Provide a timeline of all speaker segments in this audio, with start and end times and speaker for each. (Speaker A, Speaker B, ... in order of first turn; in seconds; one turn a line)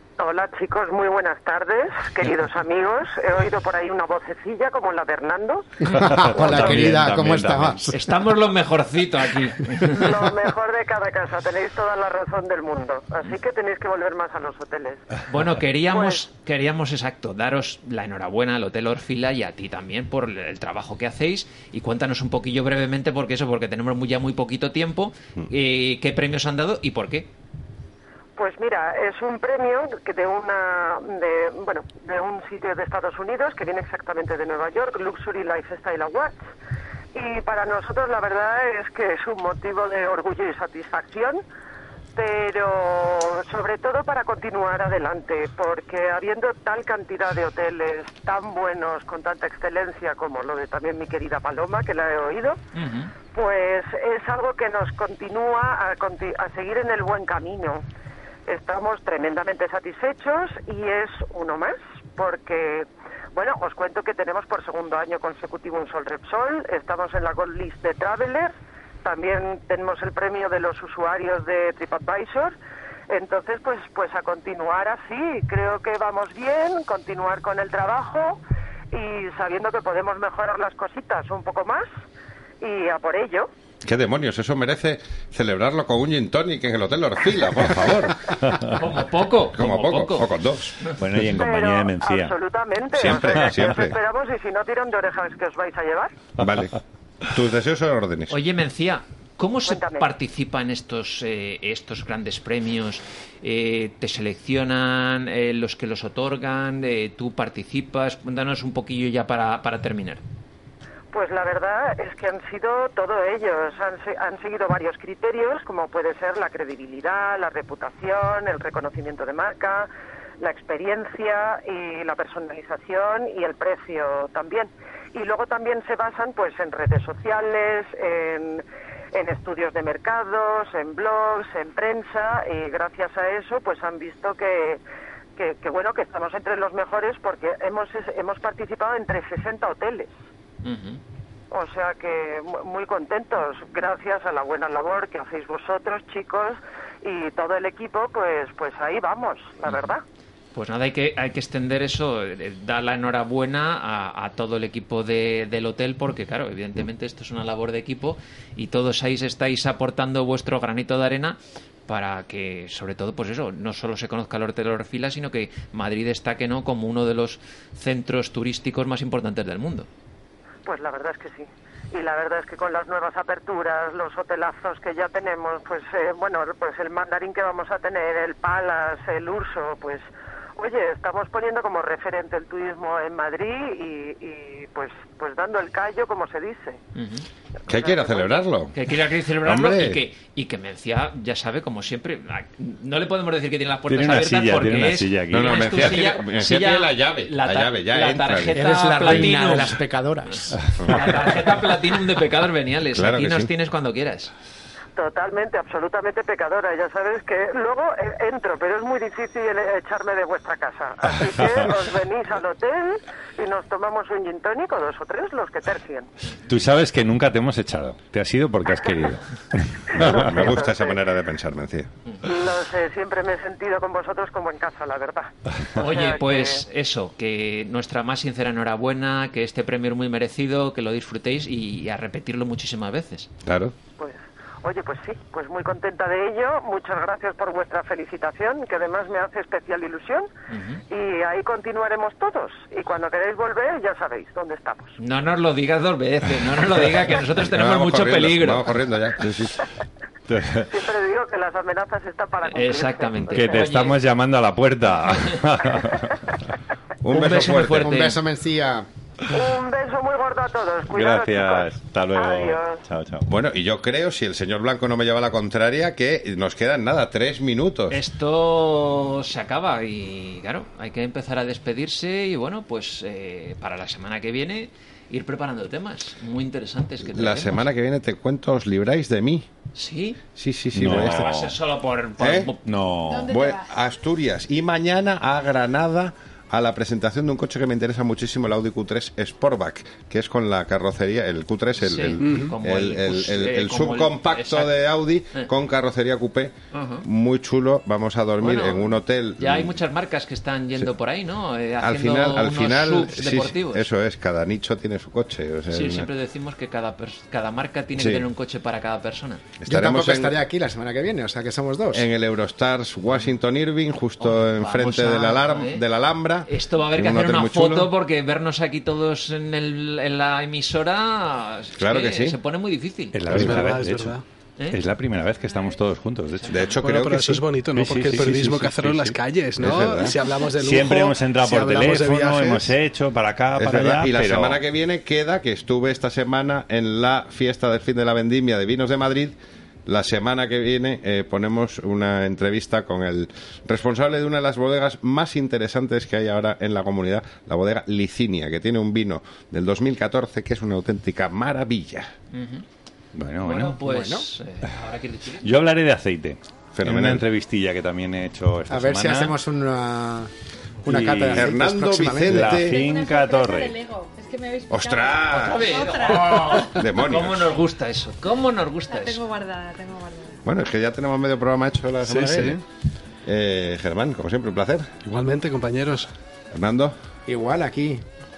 Speaker A: 0.2-6.7
Speaker B: 6.0-7.9
Speaker C: 6.0-7.8
Speaker D: 7.9-10.3
Speaker A: 9.9-15.0
Speaker D: 15.2-27.3
Speaker A: 15.9-16.2
Speaker A: 28.4-36.4
Speaker A: 37.1-41.4
Speaker A: 42.2-52.6
Speaker D: 52.8-53.1
Speaker A: 53.3-57.8
Speaker A: 58.5-68.5
Speaker A: 69.0-72.5
Speaker A: 73.1-78.4
Speaker A: 78.9-81.9
Speaker A: 82.6-83.5
Speaker E: 83.8-88.4
Speaker D: 88.7-90.3
Speaker E: 89.5-90.7
Speaker B: 91.0-92.3
Speaker A: 91.3-96.1
Speaker E: 92.9-94.0
Speaker E: 96.4-98.4
Speaker D: 98.3-110.2
Speaker A: 99.7-100.0
Speaker A: 111.1-119.9
Speaker A: 120.4-128.6
Speaker A: 129.1-134.8
Speaker A: 135.4-140.1
Speaker D: 140.6-141.0
Speaker A: 141.5-150.0
Speaker D: 149.7-149.9
Speaker D: 150.6-169.9
Speaker A: 170.6-180.1
Speaker A: 180.6-186.8
Speaker D: 186.9-187.2
Speaker A: 187.7-188.4
Speaker E: 187.7-188.8
Speaker D: 188.7-204.3
Speaker E: 189.4-190.0
Speaker B: 193.9-195.7
Speaker E: 195.3-198.6
Speaker C: 198.6-200.6
Speaker E: 200.8-201.1
Speaker E: 202.9-203.5
Speaker A: 204.9-216.1
Speaker B: 216.5-220.3
Speaker A: 219.9-221.0
Speaker E: 219.9-221.9
Speaker A: 222.2-226.6
Speaker D: 225.8-233.3
Speaker E: 233.4-233.7
Speaker A: 234.0-240.3
Speaker D: 240.5-240.8
Speaker A: 240.9-244.9
Speaker D: 245.0-248.7
Speaker E: 247.5-249.6
Speaker B: 250.3-250.7
Speaker A: 250.7-253.7
Speaker D: 252.5-254.0
Speaker B: 253.3-256.2
Speaker E: 257.0-257.9
Speaker D: 257.1-258.2
Speaker C: 257.8-258.9
Speaker A: 259.3-262.8
Speaker B: 260.9-263.3
Speaker E: 263.2-268.0
Speaker D: 267.9-277.6
Speaker E: 277.1-279.5
Speaker D: 279.8-280.2
Speaker E: 280.4-281.3
Speaker B: 280.8-281.5
Speaker D: 280.8-282.7
Speaker E: 282.2-282.5
Speaker B: 282.6-283.3
Speaker E: 283.2-299.8
Speaker D: 291.8-294.7
Speaker F: 292.2-292.5
Speaker D: 296.7-297.1
Speaker D: 298.4-303.8
Speaker E: 301.8-306.1
Speaker D: 305.7-309.4
Speaker E: 308.0-308.2
Speaker E: 309.6-310.4
Speaker C: 309.7-312.0
Speaker E: 311.9-317.9
Speaker D: 314.2-315.8
Speaker D: 316.5-323.5
Speaker E: 321.8-322.4
Speaker B: 323.1-324.2
Speaker F: 323.3-324.2
Speaker E: 323.3-323.6
Speaker B: 324.7-326.6
Speaker D: 326.4-326.8
Speaker E: 326.5-327.4
Speaker F: 326.6-332.7
Speaker B: 327.7-329.2
Speaker E: 329.6-330.2
Speaker B: 330.5-334.6
Speaker E: 333.6-352.1
Speaker D: 352.3-352.6
Speaker B: 353.1-353.8
Speaker D: 353.4-355.5
Speaker C: 353.9-354.2
Speaker B: 355.4-359.4
Speaker E: 356.8-357.2
Speaker C: 358.7-360.3
Speaker B: 360.8-361.5
Speaker C: 360.8-362.3
Speaker E: 361.3-362.8
Speaker B: 362.3-363.8
Speaker G: 362.6-366.2
Speaker E: 364.7-367.5
Speaker D: 365.3-369.2
Speaker G: 369.0-370.3
Speaker E: 370.4-372.6
Speaker F: 372.0-372.6
Speaker E: 373.2-374.9
Speaker F: 375.0-376.1
Speaker E: 376.5-376.9
Speaker C: 377.3-378.0